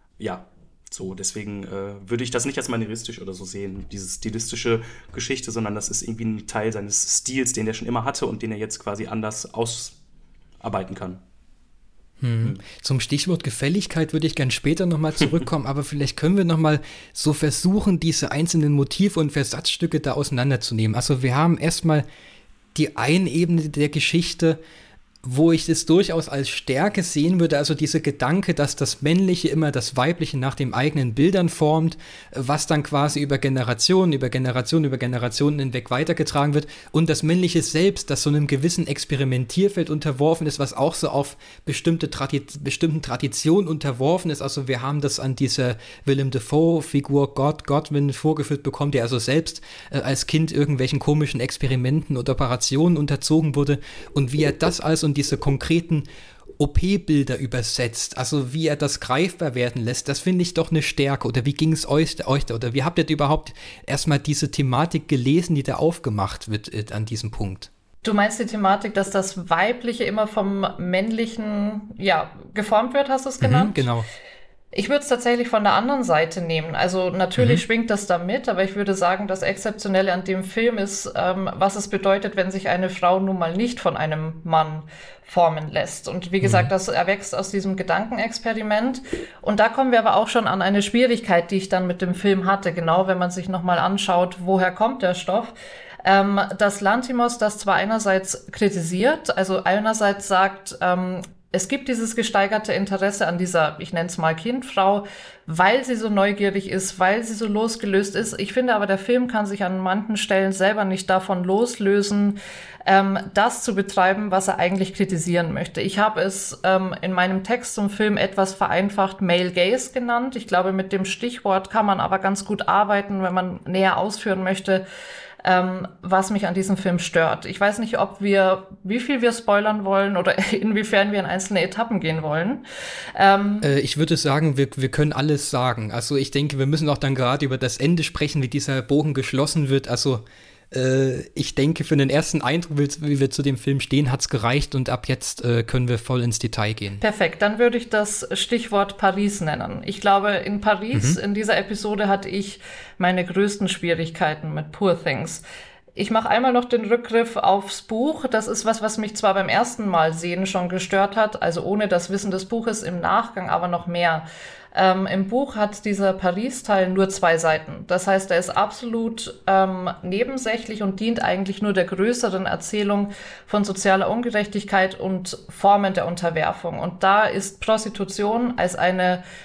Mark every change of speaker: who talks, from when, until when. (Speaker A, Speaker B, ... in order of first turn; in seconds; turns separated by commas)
Speaker A: 0.2-10.0, Speaker A: 10.6-11.2, Speaker B: 12.2-22.1, Speaker B: 22.7-24.6, Speaker B: 25.2-56.1, Speaker B: 56.6-67.7, Speaker C: 68.0-73.9, Speaker B: 73.4-74.0, Speaker C: 74.7-95.5, Speaker B: 77.4-77.6, Speaker B: 86.4-86.7, Speaker C: 96.0-124.8, Speaker C: 125.4-132.6, Speaker C: 133.1-133.7, Speaker B: 133.6-147.0, Speaker C: 147.0-155.4, Speaker B: 150.9-151.2, Speaker C: 155.9-179.2